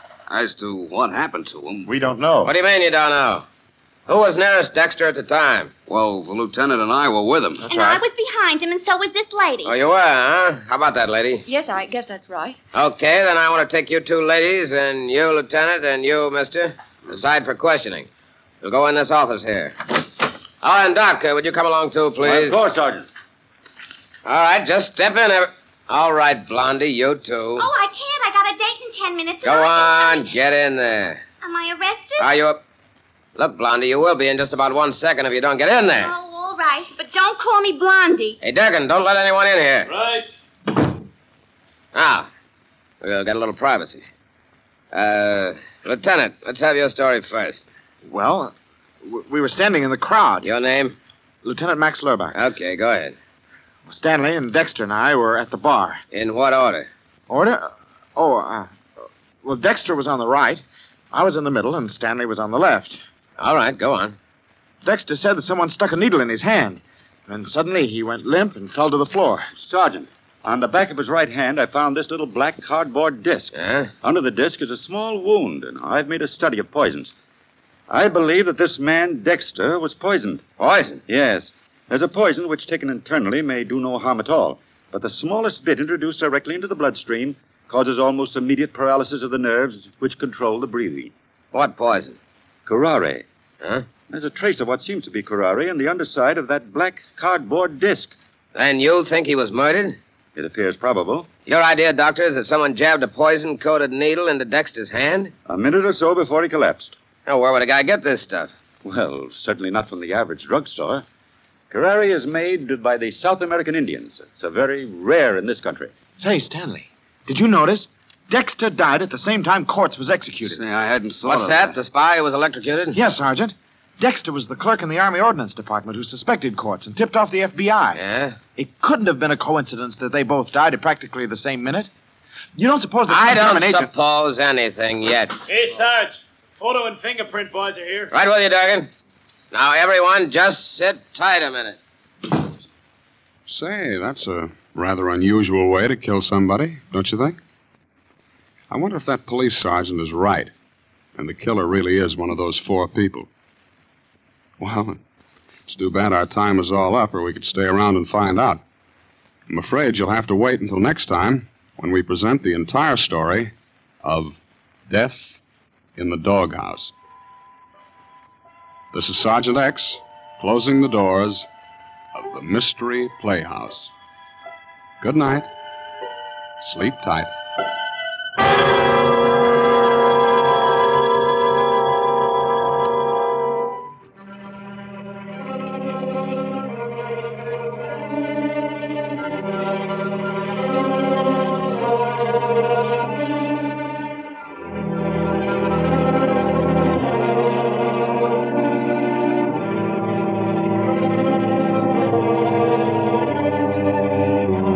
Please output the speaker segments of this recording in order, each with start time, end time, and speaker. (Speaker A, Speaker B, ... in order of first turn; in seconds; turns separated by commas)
Speaker A: 0.3-1.9, Speaker B: 1.9-2.5, Speaker C: 2.4-3.5, Speaker C: 4.1-5.7, Speaker A: 5.9-7.7, Speaker B: 7.6-8.0, Speaker D: 7.7-9.8, Speaker C: 9.6-11.4, Speaker D: 11.4-12.6, Speaker C: 12.7-18.1, Speaker C: 18.6-19.9, Speaker C: 20.6-22.6, Speaker E: 22.2-23.1, Speaker C: 24.2-27.6, Speaker D: 27.6-30.3, Speaker C: 29.4-31.2, Speaker D: 31.4-32.3, Speaker C: 32.2-32.6, Speaker C: 33.4-36.1, Speaker D: 36.0-38.4, Speaker C: 38.4-39.9, Speaker C: 41.9-42.3, Speaker C: 43.0-44.0, Speaker C: 44.9-47.6, Speaker B: 48.0-50.5, Speaker C: 50.4-51.0, Speaker B: 51.4-52.4, Speaker C: 52.3-53.1, Speaker B: 53.9-56.0, Speaker C: 56.1-56.9, Speaker B: 57.3-58.7, Speaker B: 59.4-63.0, Speaker C: 63.4-64.2, Speaker B: 64.8-69.5, Speaker E: 69.6-73.5, Speaker C: 73.5-73.9, Speaker E: 74.0-77.1, Speaker E: 77.9-80.5, Speaker C: 80.6-81.0, Speaker E: 81.1-91.1, Speaker C: 91.5-92.2, Speaker E: 92.7-93.2, Speaker C: 93.6-93.8, Speaker E: 94.1-98.1, Speaker C: 98.5-100.0, Speaker E: 100.3-101.3, Speaker C: 101.5-105.3, Speaker E: 105.5-106.9, Speaker C: 107.2-108.5, Speaker E: 108.8-111.0, Speaker E: 111.7-115.9, Speaker B: 116.2-120.6, Speaker A: 120.4-121.8, Speaker C: 121.2-123.0, Speaker B: 122.9-128.0, Speaker C: 127.9-128.4, Speaker B: 128.6-131.9, Speaker B: 132.6-133.9, Speaker C: 133.1-135.3, Speaker F: 135.5-136.1, Speaker F: 136.7-138.1, Speaker C: 138.1-138.9, Speaker C: 139.5-141.8, Speaker G: 143.5-147.4, Speaker G: 148.7-150.5, Speaker G: 151.2-153.3, Speaker G: 154.6-155.0, Speaker G: 155.7-158.6, Speaker G: 159.5-163.5, Speaker G: 164.0-165.4, Speaker G: 165.9-166.9, Speaker G: 168.9-171.5, Speaker G: 172.1-173.9, Speaker G: 175.0-175.5, Speaker G: 176.6-177.3